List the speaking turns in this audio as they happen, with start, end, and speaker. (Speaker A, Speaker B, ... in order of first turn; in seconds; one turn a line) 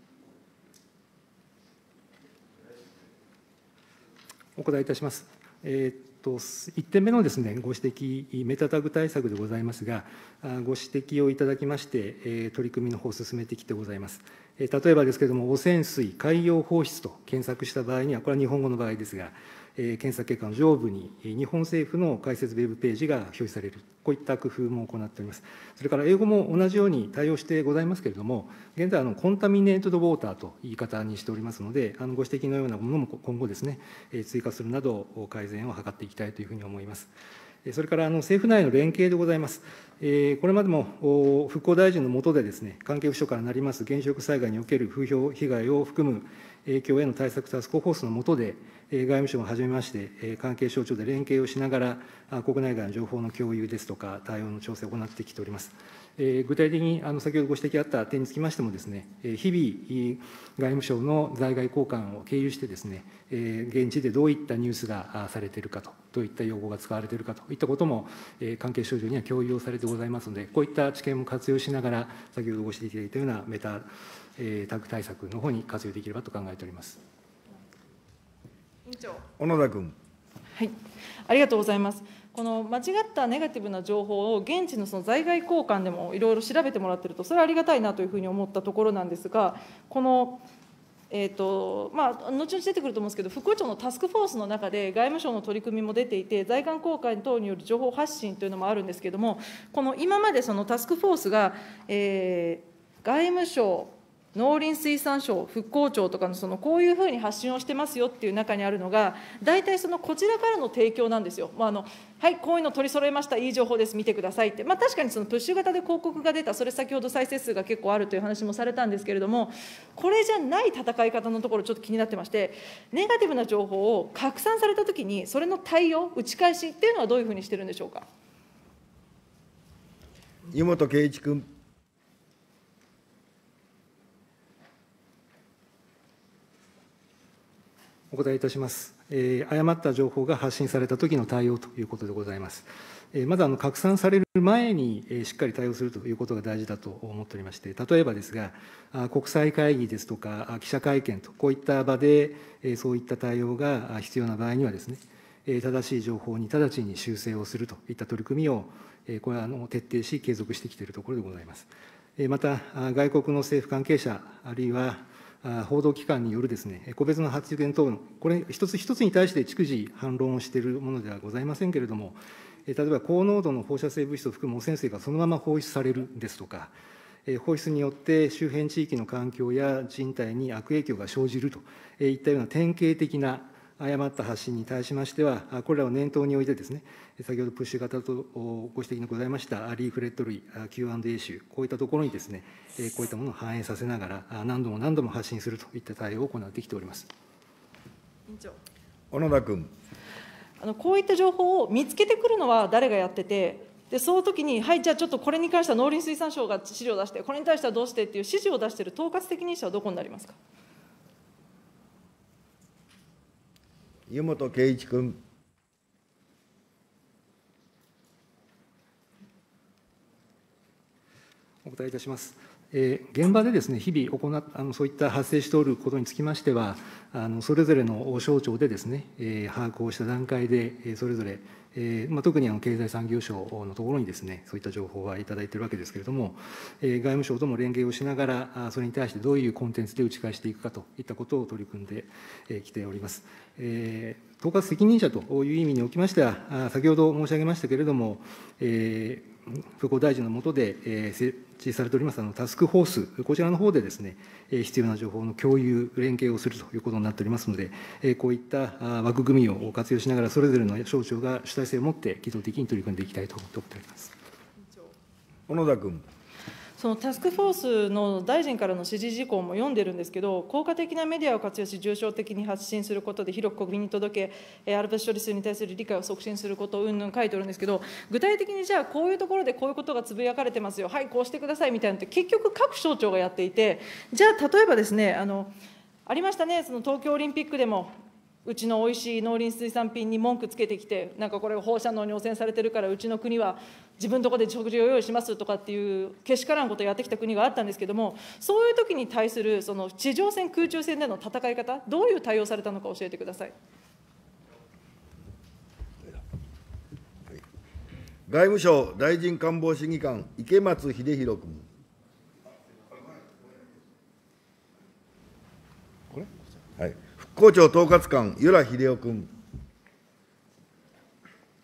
Speaker A: 4.6-37.1
Speaker A: 37.6-73.9
Speaker A: 74.4-77.0
Speaker B: 78.9-79.2
Speaker C: 79.4-80.0
Speaker B: 81.3-90.4
Speaker B: 91.1-128.1
Speaker C: 130.5-131.5
Speaker A: 138.1-176.7
Speaker A: 177.3-197.1
Speaker B: 198.3-198.6
Speaker C: 199.1-199.7
Speaker B: 200.6-210.4
Speaker C: 214.1-215.2
Speaker A: 221.6-264.1
Speaker C: 265.5-266.1
Speaker B: 266.8-285.5
Speaker B: 286.1-287.9
Speaker B: 288.4-303.5
Speaker C: 308.3-311.7
Speaker C: 316.1-319.3